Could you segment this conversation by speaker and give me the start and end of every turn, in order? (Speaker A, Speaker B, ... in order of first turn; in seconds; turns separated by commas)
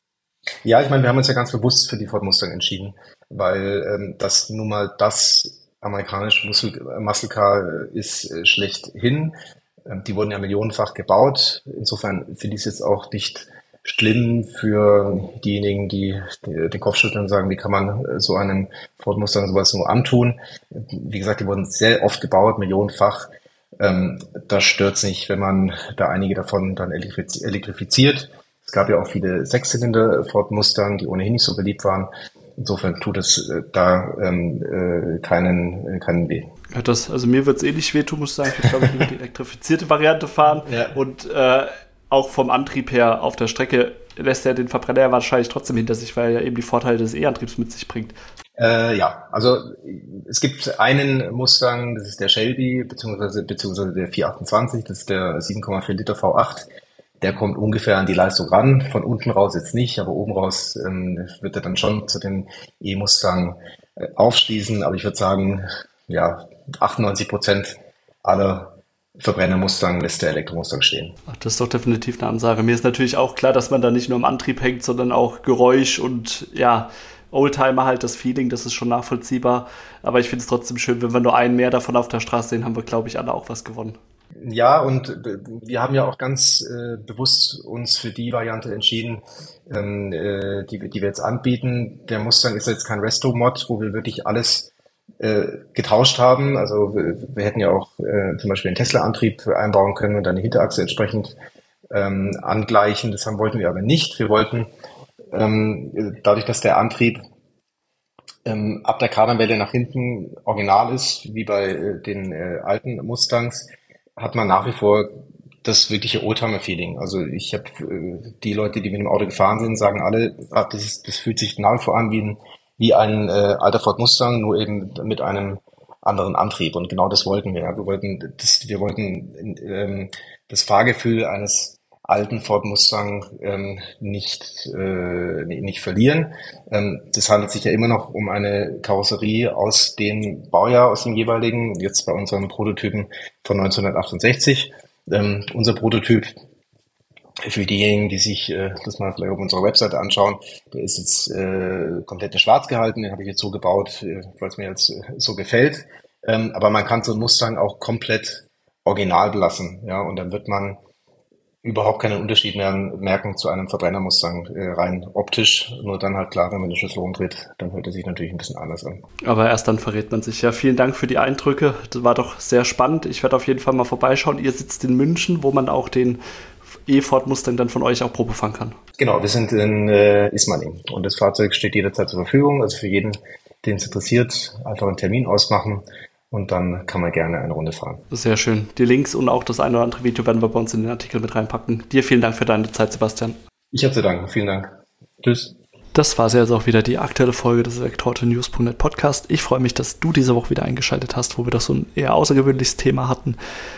Speaker A: 0.6-9.3, Speaker A: 9.9-36.5, Speaker B: 36.7-48.1, Speaker A: 40.6-41.0, Speaker A: 48.6-56.7, Speaker A: 57.2-63.6, Speaker A: 64.2-71.2, Speaker B: 71.3-84.0, Speaker A: 84.4-101.3, Speaker A: 101.9-104.7, Speaker A: 105.3-107.2, Speaker A: 108.4-146.3, Speaker A: 147.4-160.8, Speaker A: 161.6-169.0, Speaker B: 169.2-176.2, Speaker B: 176.8-178.8, Speaker A: 179.0-188.0, Speaker B: 188.1-193.3, Speaker A: 193.7-195.5, Speaker B: 195.9-203.4